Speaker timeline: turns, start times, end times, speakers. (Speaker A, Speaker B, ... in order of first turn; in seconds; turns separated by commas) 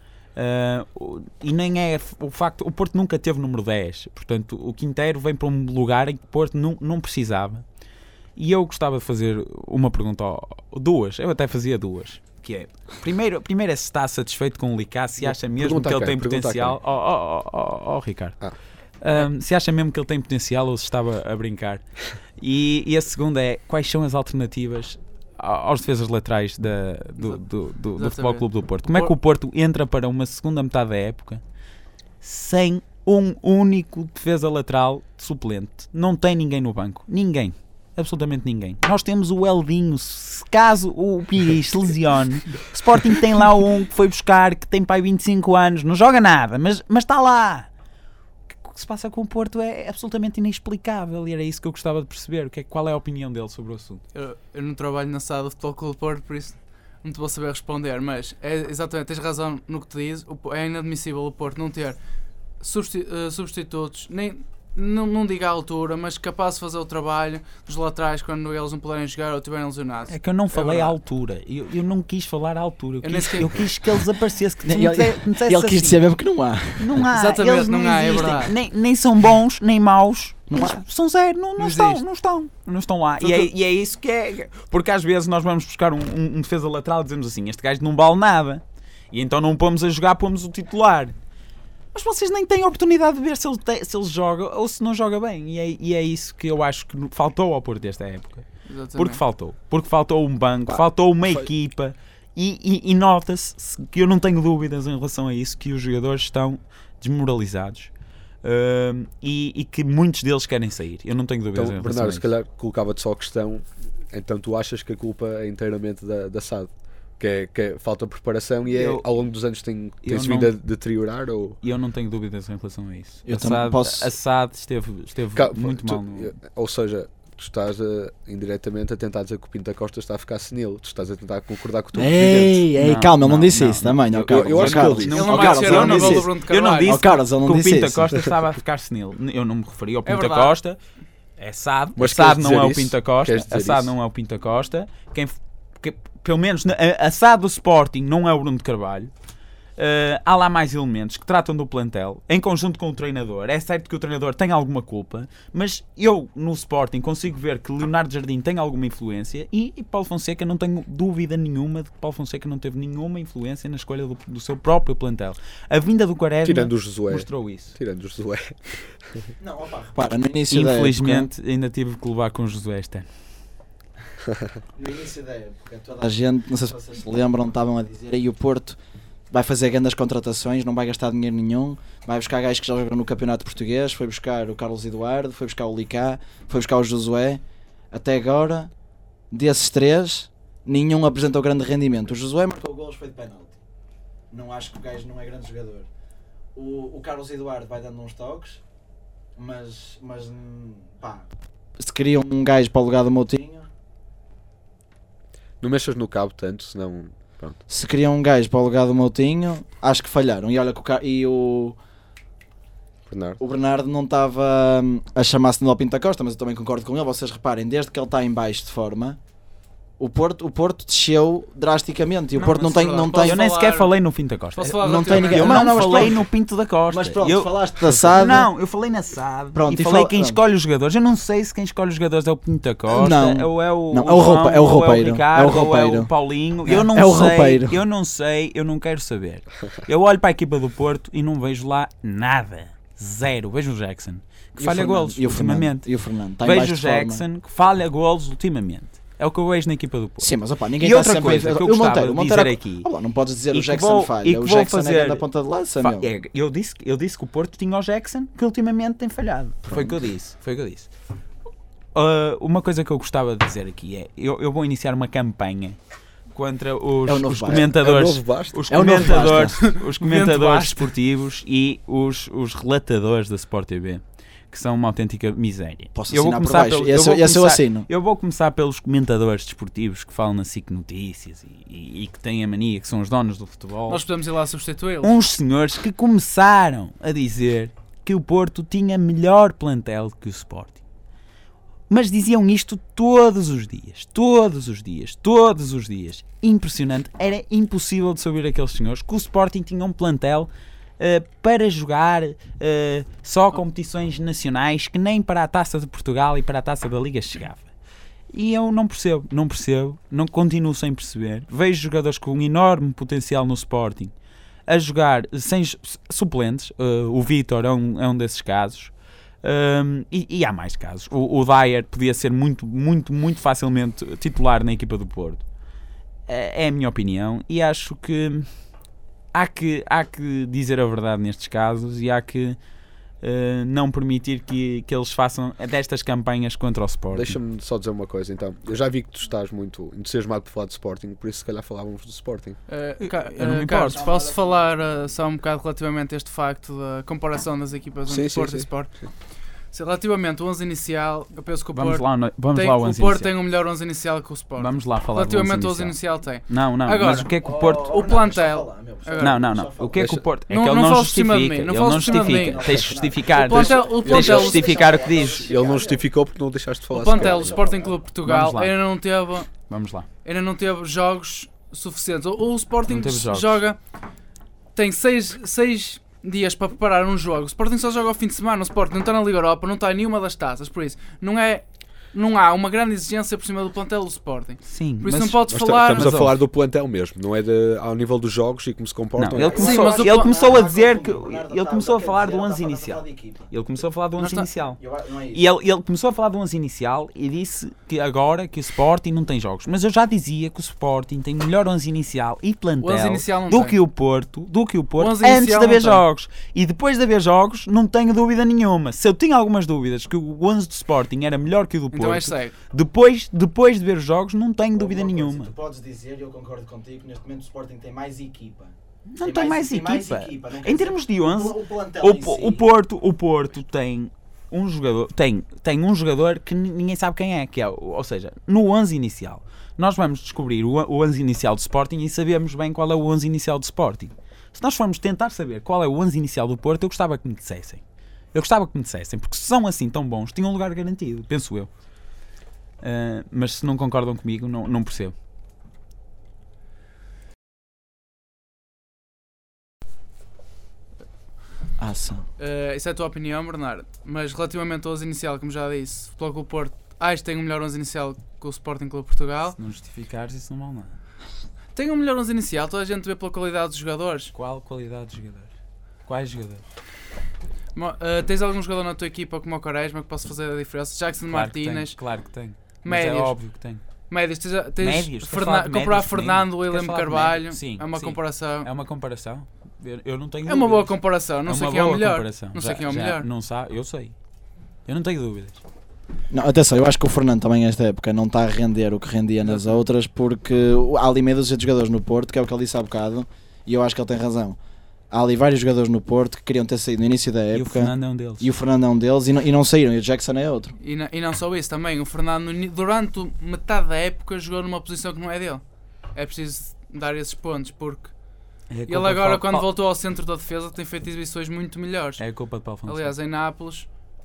Speaker A: 0.3-7.6, Speaker A: 8.3-18.4, Speaker B: 15.2-16.8, Speaker A: 19.0-21.8, Speaker A: 22.4-31.4, Speaker C: 28.0-29.1, Speaker A: 32.2-47.7, Speaker A: 48.5-54.0, Speaker C: 54.1-62.0, Speaker C: 62.6-71.0, Speaker A: 70.1-76.0, Speaker C: 73.0-73.7, Speaker D: 74.6-77.0, Speaker A: 76.8-91.1, Speaker C: 77.1-78.5, Speaker D: 80.5-80.8, Speaker C: 81.6-82.0, Speaker C: 83.2-83.5, Speaker A: 91.9-107.9, Speaker C: 98.7-99.2, Speaker A: 108.4-112.3, Speaker B: 111.5-121.6, Speaker A: 118.7-119.0, Speaker A: 120.0-120.5, Speaker A: 121.6-126.3, Speaker D: 123.2-124.1, Speaker B: 125.3-132.6, Speaker D: 131.9-138.2, Speaker A: 132.7-140.8, Speaker B: 134.3-135.6, Speaker C: 135.1-137.0, Speaker C: 140.1-140.5, Speaker A: 141.4-149.1, Speaker B: 142.0-143.9, Speaker A: 149.8-167.8, Speaker B: 166.4-168.7, Speaker D: 169.4-171.3, Speaker A: 170.5-173.1, Speaker D: 174.7-178.8, Speaker D: 179.3-187.4, Speaker D: 187.9-188.7, Speaker D: 189.3-193.6, Speaker D: 194.3-195.9, Speaker D: 196.5-198.6, Speaker D: 199.3-201.3, Speaker D: 201.8-203.7, Speaker B: 205.6-207.6, Speaker D: 207.7-211.8, Speaker B: 213.1-213.4, Speaker D: 213.4-219.2, Speaker D: 220.0-223.4, Speaker C: 222.3-223.9, Speaker A: 223.2-245.9, Speaker C: 224.6-226.1, Speaker D: 224.8-226.2, Speaker D: 226.9-228.5, Speaker D: 229.5-230.4, Speaker D: 232.9-236.1, Speaker D: 236.6-237.8, Speaker D: 244.6-247.2, Speaker A: 246.4-252.9, Speaker D: 250.2-256.1, Speaker A: 253.5-255.2, Speaker A: 255.8-260.9, Speaker D: 259.7-260.0, Speaker A: 261.9-265.8, Speaker A: 266.3-284.0, Speaker D: 267.1-267.8, Speaker B: 267.6-268.8, Speaker D: 268.7-269.7, Speaker C: 269.5-270.9, Speaker D: 275.9-277.9, Speaker C: 283.9-285.1, Speaker A: 285.0-290.8, Speaker A: 291.9-307.7, Speaker A: 308.3-314.1, Speaker A: 314.7-325.4, Speaker A: 326.3-328.5, Speaker A: 329.3-332.6, Speaker A: 333.2-337.4, Speaker B: 337.1-342.6, Speaker C: 342.7-348.9, Speaker A: 343.0-344.0, Speaker D: 343.9-344.7, Speaker B: 348.1-348.7, Speaker C: 349.7-359.4, Speaker A: 351.7-353.3, Speaker A: 354.6-357.9, Speaker D: 357.4-360.1, Speaker A: 359.2-365.5, Speaker B: 359.9-360.2, Speaker C: 360.5-364.8, Speaker D: 361.9-366.0, Speaker B: 363.5-367.6, Speaker C: 366.9-369.5, Speaker D: 367.1-368.0, Speaker A: 368.2-368.8, Speaker A: 369.7-370.1, Speaker C: 370.2-373.8, Speaker A: 372.9-373.6, Speaker C: 374.7-386.2, Speaker A: 384.6-386.4, Speaker B: 385.4-389.7, Speaker A: 389.1-394.8, Speaker D: 389.4-393.5, Speaker C: 389.5-390.3, Speaker C: 394.2-394.5, Speaker D: 394.8-395.4, Speaker A: 395.3-415.5, Speaker C: 402.8-403.8, Speaker C: 405.0-406.0, Speaker C: 411.9-412.6, Speaker D: 414.7-422.6, Speaker A: 419.1-437.8, Speaker A: 438.3-441.7, Speaker A: 442.8-445.1, Speaker D: 451.8-452.2, Speaker C: 452.4-459.6, Speaker A: 459.5-460.9, Speaker C: 461.7-464.3, Speaker A: 464.3-465.5, Speaker A: 466.1-466.6, Speaker C: 467.7-472.0, Speaker A: 471.3-473.8, Speaker C: 472.8-473.4, Speaker C: 474.1-478.7, Speaker A: 474.8-480.9, Speaker C: 480.4-483.3, Speaker A: 481.4-484.1, Speaker A: 484.9-485.6, Speaker D: 486.3-494.6, Speaker D: 495.1-500.7, Speaker A: 497.5-498.5, Speaker C: 500.8-505.6, Speaker C: 506.1-508.1, Speaker A: 508.7-509.7, Speaker C: 508.9-512.2, Speaker A: 512.2-513.1, Speaker C: 512.9-513.9